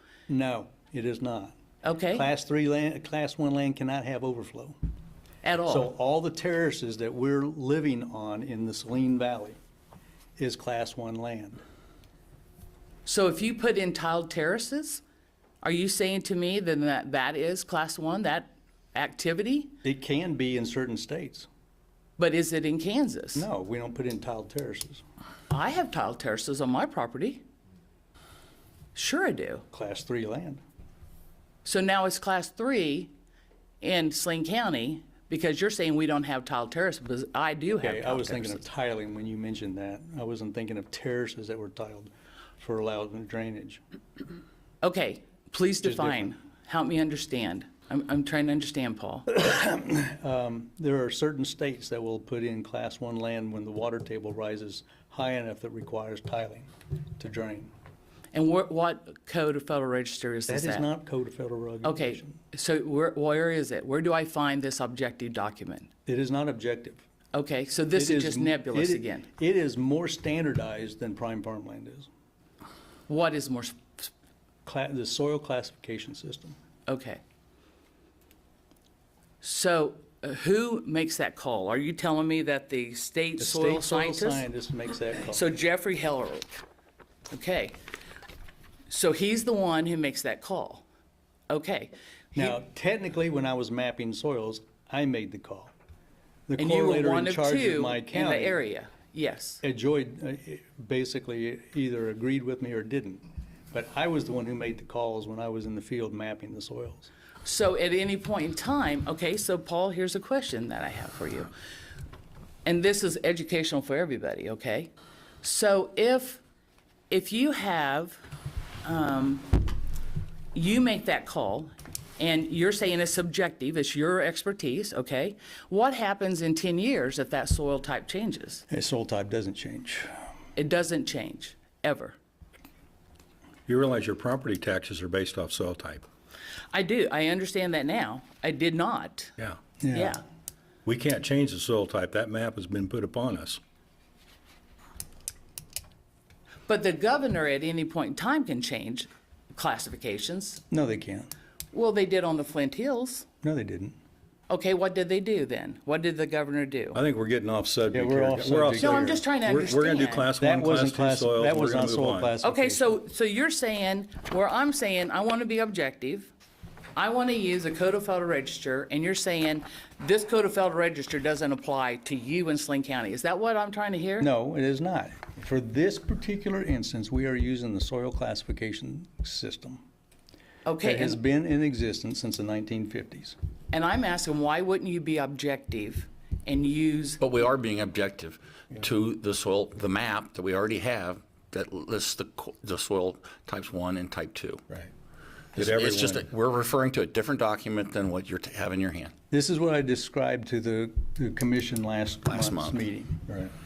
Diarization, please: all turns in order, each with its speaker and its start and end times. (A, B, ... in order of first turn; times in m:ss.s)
0:00.3-0:01.6 A
0:01.8-0:02.3 B
0:02.1-0:04.8 A
0:05.4-0:05.9 B
0:05.7-0:09.6 A
0:10.4-0:11.6 A
0:13.0-0:15.0 B
0:15.6-0:19.7 B
0:19.8-0:21.5 A
0:22.2-0:23.5 B
0:23.4-0:25.0 A
0:25.5-0:27.4 B
0:29.0-0:29.6 B
0:29.7-0:30.6 A
0:31.6-0:33.1 B
0:33.8-0:38.6 B
0:37.8-0:43.8 A
0:44.8-0:49.3 B
0:45.8-0:46.3 A
0:49.3-0:56.7 A
0:57.2-0:57.7 A
0:58.3-1:00.9 B
1:00.5-1:02.4 A
1:01.8-1:05.9 B
1:06.1-1:07.0 A
1:07.3-1:09.3 B
1:07.9-1:12.1 A
1:13.1-1:14.1 B
1:14.6-1:16.6 A
1:16.9-1:17.2 B
1:19.4-1:24.5 B
1:23.4-1:25.4 A
1:25.2-1:26.5 B
1:27.3-1:27.8 B
1:28.9-1:30.8 B
1:31.5-1:32.6 B
1:32.4-1:35.7 A
1:36.5-1:38.6 A
1:36.6-1:39.6 B
1:39.6-1:47.1 A
1:47.4-1:51.5 B
1:52.6-1:54.9 B
1:55.4-1:56.4 B
1:57.1-1:58.2 B
1:58.8-1:59.6 B
2:00.5-2:08.6 B
2:08.7-2:10.1 A
2:10.6-2:12.2 B
2:13.7-2:16.0 C
2:16.7-2:19.4 B
2:19.8-2:20.2 A
2:19.9-2:20.2 B
2:20.8-2:23.6 C
2:26.7-2:30.6 B
2:30.7-2:31.3 A
2:31.7-2:33.3 B
2:33.4-2:34.0 A
2:34.5-2:37.0 B
2:36.9-2:42.4 C
2:37.9-2:39.2 A
2:38.8-2:40.3 B
2:40.4-2:43.0 A
2:42.4-2:46.3 B
2:47.0-2:54.3 B
2:54.2-2:59.8 A
3:00.6-3:01.2 B
3:00.8-3:03.4 A
3:03.7-3:07.2 B
3:07.2-3:14.6 D
3:15.6-3:16.2 C
3:15.6-3:19.1 D
3:19.3-3:23.3 A
3:22.3-3:22.8 D